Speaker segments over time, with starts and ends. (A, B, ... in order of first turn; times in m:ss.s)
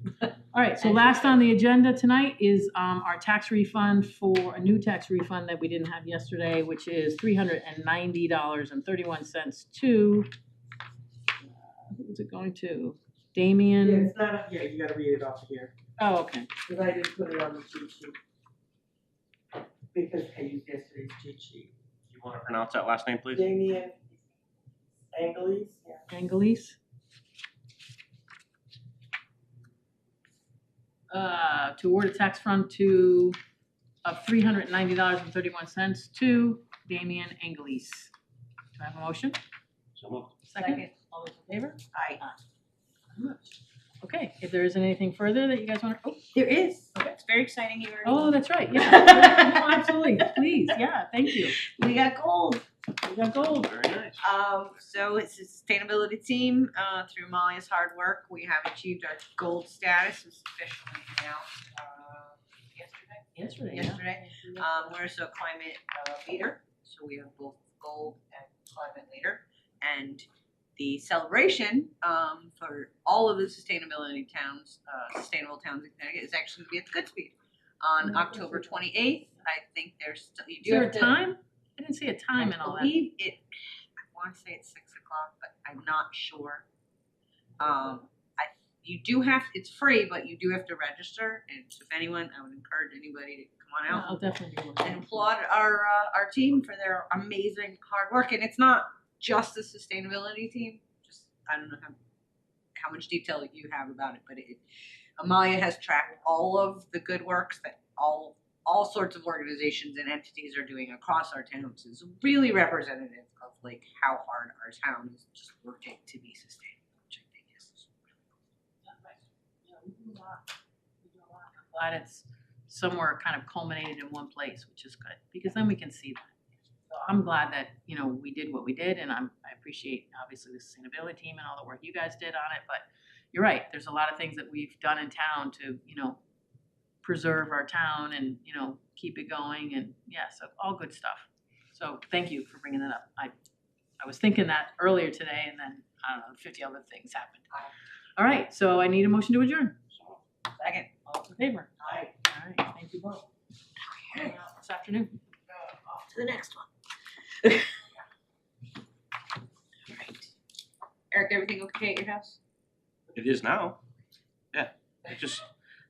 0:00.5-0:10.3 A
0:00.8-0:01.3 B
0:11.8-0:14.1 A
0:13.8-0:15.7 C
0:16.0-0:16.5 A
0:16.7-0:18.1 C
0:19.9-0:21.7 C
0:22.1-0:23.5 D
0:23.3-0:24.0 C
0:25.1-0:26.0 C
0:26.1-0:26.8 A
0:31.1-0:33.4 A
0:34.0-0:38.1 A
0:38.8-0:39.4 A
0:40.0-0:40.3 D
0:40.5-0:42.4 A
0:40.6-0:40.9 B
0:41.9-0:42.2 B
0:43.1-0:46.3 A
0:46.3-0:50.5 B
0:48.0-0:51.6 A
0:51.6-0:52.6 B
0:53.0-0:53.7 A
0:53.5-0:54.2 D
0:54.2-1:10.2 B
1:03.4-1:04.9 A
1:10.8-1:21.2 B
1:20.6-1:23.0 A
1:22.4-1:23.4 B
1:24.1-1:26.6 B
1:27.6-1:34.2 B
1:33.9-1:35.3 A
1:34.8-1:42.0 B
1:42.8-1:44.6 B
1:45.2-1:57.9 B
1:59.7-1:59.9 A
2:01.7-2:06.3 A
2:06.9-2:16.2 A
2:17.0-2:23.3 A
2:24.0-2:27.5 A
2:28.2-2:29.7 A
2:29.9-2:30.2 D
2:30.6-2:30.9 B
2:31.0-2:31.7 A
2:31.8-2:32.1 B
2:32.2-2:33.2 A
2:33.9-2:34.4 B
2:34.1-2:35.1 A
2:35.5-2:36.7 B
2:37.4-2:37.9 B
2:39.9-2:40.3 B
2:41.1-2:42.4 B
2:43.1-2:43.8 D
2:44.5-2:45.4 D